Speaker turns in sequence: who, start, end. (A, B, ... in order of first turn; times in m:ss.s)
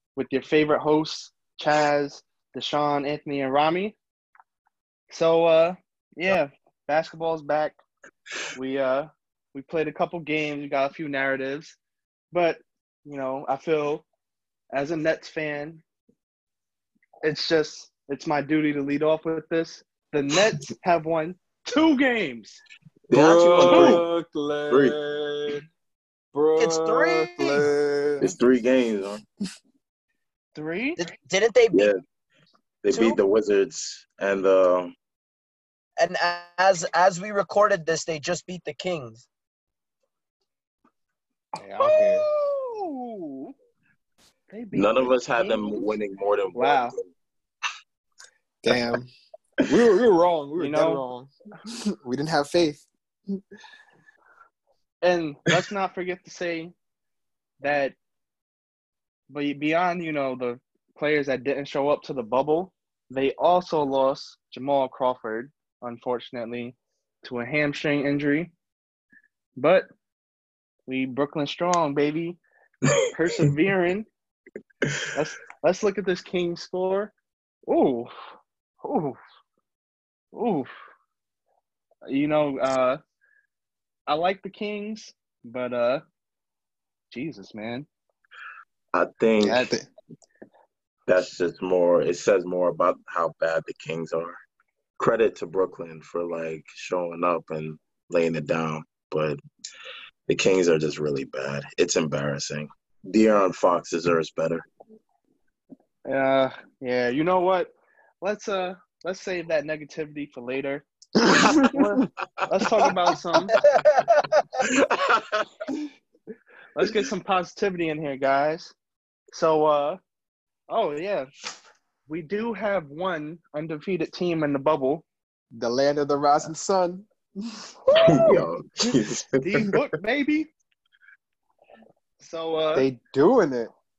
0:00.2-0:04.0 A
0:05.1-0:07.8 A
0:08.5-0:11.8 A
0:12.3-0:14.0 A
0:14.7-0:15.8 A
0:17.2-0:22.6 A
0:23.1-0:24.0 B
0:23.1-0:25.6 C
0:23.7-0:24.0 A
0:24.7-0:25.0 B
0:26.3-0:28.3 C
0:26.6-0:27.7 D
0:28.2-0:29.2 B
0:30.5-0:31.0 A
0:31.0-0:31.9 D
0:32.8-0:34.9 B
0:32.9-0:33.2 D
0:36.0-0:39.2 D
0:41.6-0:42.3 C
0:41.8-0:43.5 A
0:44.5-0:45.9 A
0:44.7-0:47.1 B
0:46.5-0:46.9 A
0:48.6-0:49.1 C
0:49.6-0:53.4 C
0:50.6-0:51.0 A
0:55.0-0:56.7 A
0:57.6-0:58.0 A
0:59.3-1:08.5 A
1:09.6-1:09.9 A
1:10.9-1:12.4 A
1:13.1-1:14.1 A
1:15.1-1:17.1 A
1:17.7-1:18.1 A
1:18.8-1:19.2 A
1:20.3-1:20.7 A
1:22.0-1:23.0 A
1:24.1-1:26.0 A
1:27.1-1:27.9 A
1:28.9-1:29.7 B
1:29.4-1:29.7 A
1:29.4-1:29.8 C
1:31.1-1:34.4 B
1:35.0-1:39.4 B
1:40.3-1:44.6 B
1:46.0-1:50.8 A
1:51.2-1:51.8 C
1:51.3-1:51.8 B
1:51.6-1:53.6 A
1:53.6-1:54.4 D
1:54.6-1:55.5 B
1:56.7-1:58.7 A
1:59.3-2:00.0 A
2:00.7-2:01.3 A
2:02.1-2:05.0 A
2:05.5-2:07.7 C
2:07.9-2:08.4 A
2:08.0-2:09.8 B
2:09.4-2:10.5 A
2:12.2-2:12.9 A
2:12.8-2:13.7 C